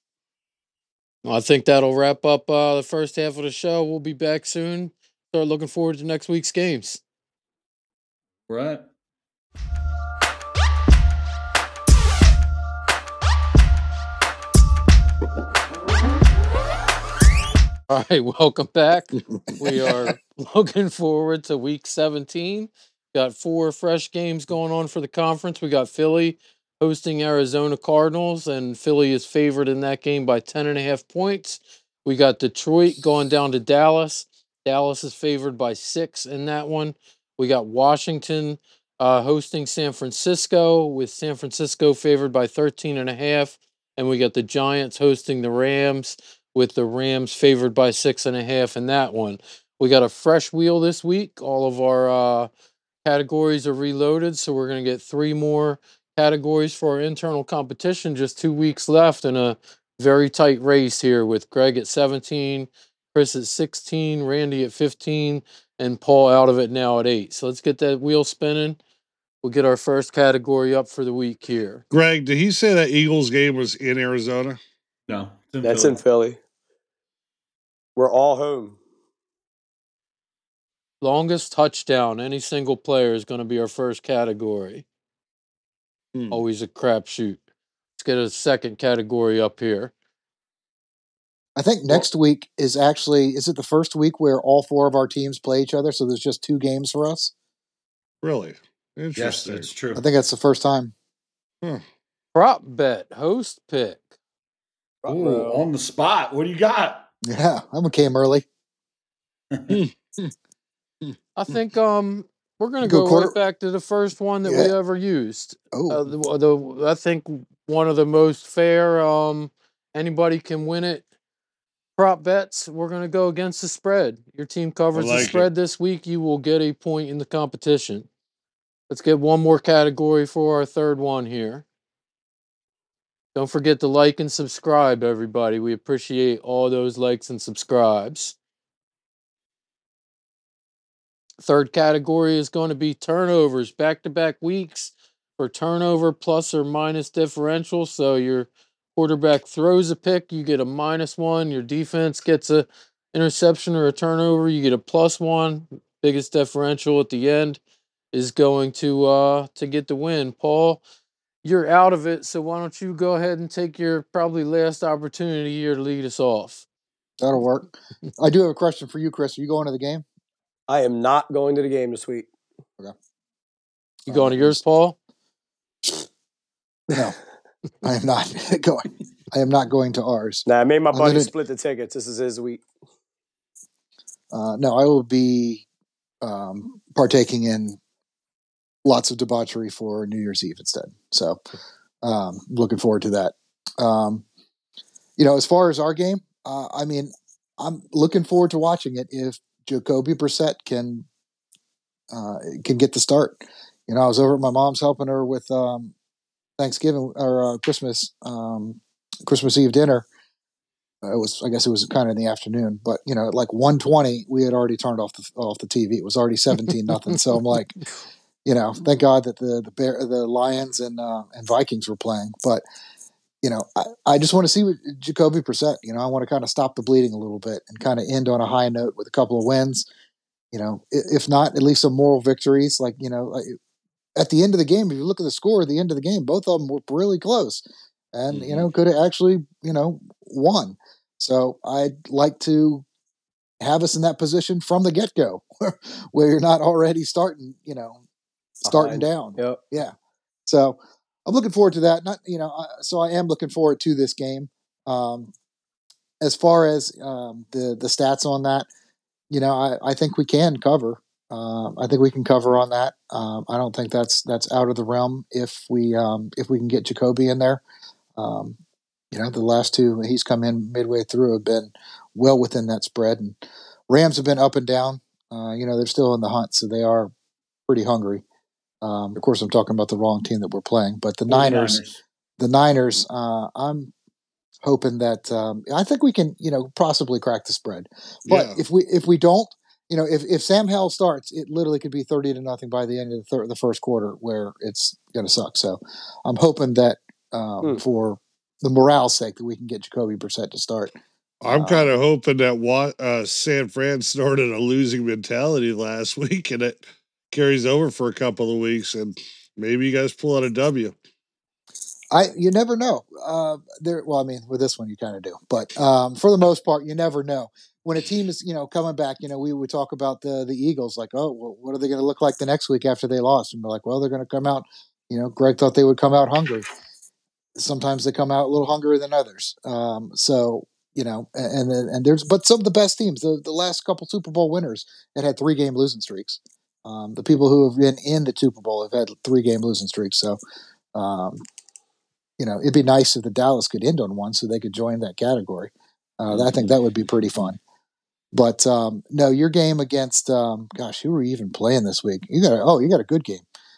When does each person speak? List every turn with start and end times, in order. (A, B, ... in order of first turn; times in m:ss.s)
0:01.2-0:07.0 A
0:08.5-0:08.8 B
0:17.9-0:52.5 A
0:19.4-0:20.1 C
0:53.0-1:08.8 A
1:09.4-1:11.8 A
1:11.9-1:14.6 C
1:15.1-1:16.0 B
1:15.6-1:16.4 D
1:18.0-1:18.8 D
1:21.0-1:24.8 A
1:26.1-1:26.4 C
1:26.3-1:27.4 A
1:28.0-1:29.9 A
1:31.6-1:37.3 E
1:38.2-1:39.7 C
1:39.2-1:40.0 B
1:40.0-1:40.9 E
1:42.3-1:44.1 A
1:45.0-1:45.7 D
1:45.1-1:47.1 B
1:47.2-1:48.4 E
1:49.5-1:49.8 B
1:49.7-1:50.3 C
1:51.0-1:51.6 C
1:51.4-2:01.0 A
1:52.8-1:53.4 E
1:54.4-1:54.7 E
1:55.7-1:56.0 E
2:02.0-2:08.1 A
2:04.9-2:05.4 C
2:05.1-2:05.4 B
2:08.9-2:11.6 A
2:13.3-2:18.4 A
2:21.4-2:37.6 A
2:38.1-2:40.8 A
2:41.4-2:46.6 A
2:47.2-2:50.0 E
2:50.7-2:52.3 D
2:54.1-2:54.6 E
2:54.1-2:55.0 A
2:56.9-2:57.2 E
2:57.8-3:01.3 E
3:00.5-3:02.6 D
3:04.3-3:05.6 E
3:06.2-3:07.8 E
3:08.8-3:11.4 E
3:12.0-3:14.2 E
3:15.2-3:21.1 E
3:22.1-3:25.9 E
3:26.6-3:30.1 E
3:31.0-3:37.8 E
3:38.4-3:42.6 E
3:43.4-3:49.9 E
3:50.5-3:53.6 E
3:54.2-3:57.6 E
3:58.1-4:02.8 E
3:58.3-3:58.6 B
4:03.6-4:08.0 E
4:08.6-4:09.9 E
4:08.6-4:09.6 D
4:10.5-4:15.3 E
4:16.2-4:18.7 E
4:19.3-4:27.6 E
4:28.2-4:28.6 E
4:29.1-4:33.4 E
4:33.9-4:37.1 E
4:37.7-4:38.2 E
4:38.8-4:41.8 E
4:41.3-4:42.0 B
4:42.4-4:43.9 E
4:44.6-5:00.9 E
4:48.3-4:48.6 C
5:01.4-5:11.0 C
5:01.5-5:01.9 E
5:12.1-5:26.7 E
5:27.6-5:40.4 E
5:41.0-5:41.4 E
5:42.4-5:47.6 E
5:48.3-5:53.4 E